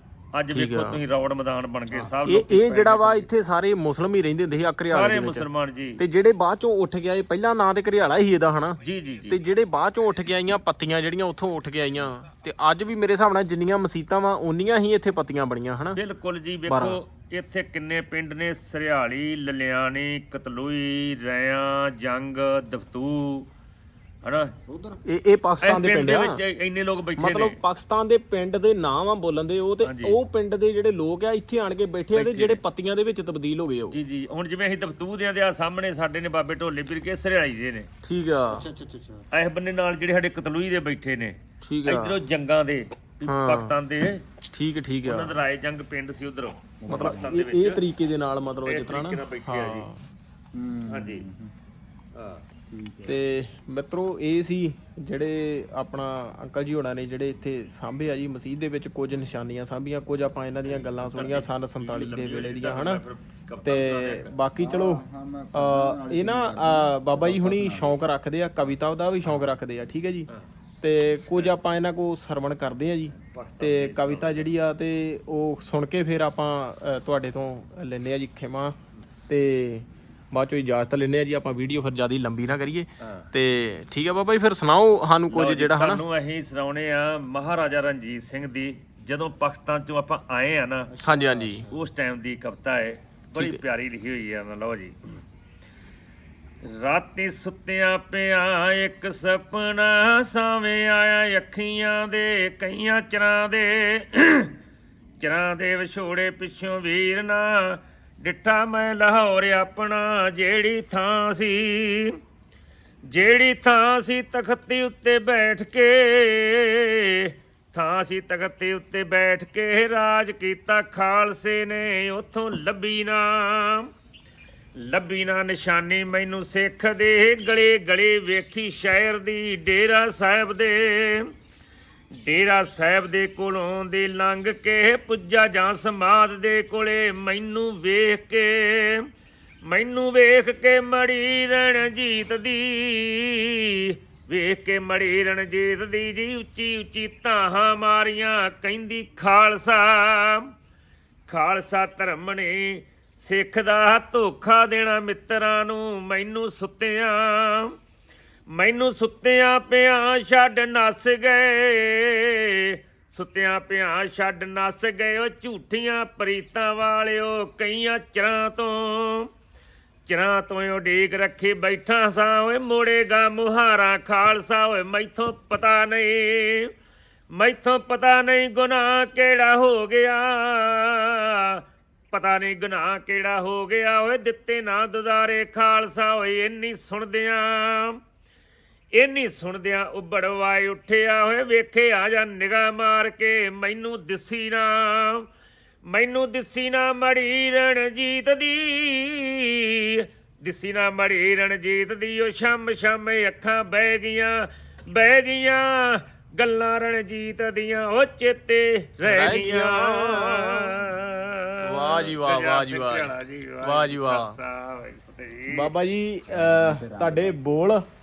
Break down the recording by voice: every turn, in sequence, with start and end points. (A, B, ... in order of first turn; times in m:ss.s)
0:00.4-0:03.3 A
0:00.5-0:01.0 B
0:02.3-0:16.0 B
0:04.9-0:06.0 A
0:08.8-0:09.4 A
0:16.0-0:23.5 A
0:16.7-0:17.0 B
0:24.2-0:24.5 A
0:24.7-0:25.0 C
0:25.1-0:26.4 B
0:25.6-0:27.6 A
0:27.2-0:34.0 B
0:29.8-0:30.2 A
0:32.1-0:32.6 A
0:33.9-0:37.9 A
0:38.0-0:38.7 B
0:38.5-0:39.2 C
0:39.3-0:44.2 A
0:41.6-0:42.2 B
0:43.3-0:43.8 B
0:44.5-0:45.4 B
0:45.0-0:47.8 A
0:46.8-0:47.4 C
0:46.9-0:50.1 B
0:48.6-0:49.9 A
0:50.5-0:51.5 C
0:50.9-0:51.2 A
0:52.2-0:52.4 A
0:52.7-0:53.2 C
0:53.0-1:03.0 B
1:00.6-1:04.3 A
1:03.6-1:10.3 B
1:04.6-1:08.0 C
1:10.8-1:18.8 B
1:11.2-1:11.5 A
1:13.2-1:14.5 A
1:19.3-1:26.0 B
1:23.0-1:23.3 A
1:25.3-1:30.9 A
1:30.9-1:31.8 C
1:31.0-1:31.7 B
1:31.7-1:35.2 A
1:33.3-1:33.6 B
1:36.6-1:44.6 A
1:45.2-1:52.2 A
1:53.1-2:03.9 A
2:04.8-2:11.3 A
2:12.2-2:19.1 A
2:19.7-2:30.5 A
2:31.3-2:37.7 A
2:38.5-2:49.3 A
2:50.1-2:56.7 A
2:57.3-3:08.0 A
3:09.0-3:15.3 A
3:15.9-3:35.7 A
3:29.0-3:30.8 B
3:31.6-3:34.4 B
3:35.5-3:37.8 B
3:36.3-3:37.4 C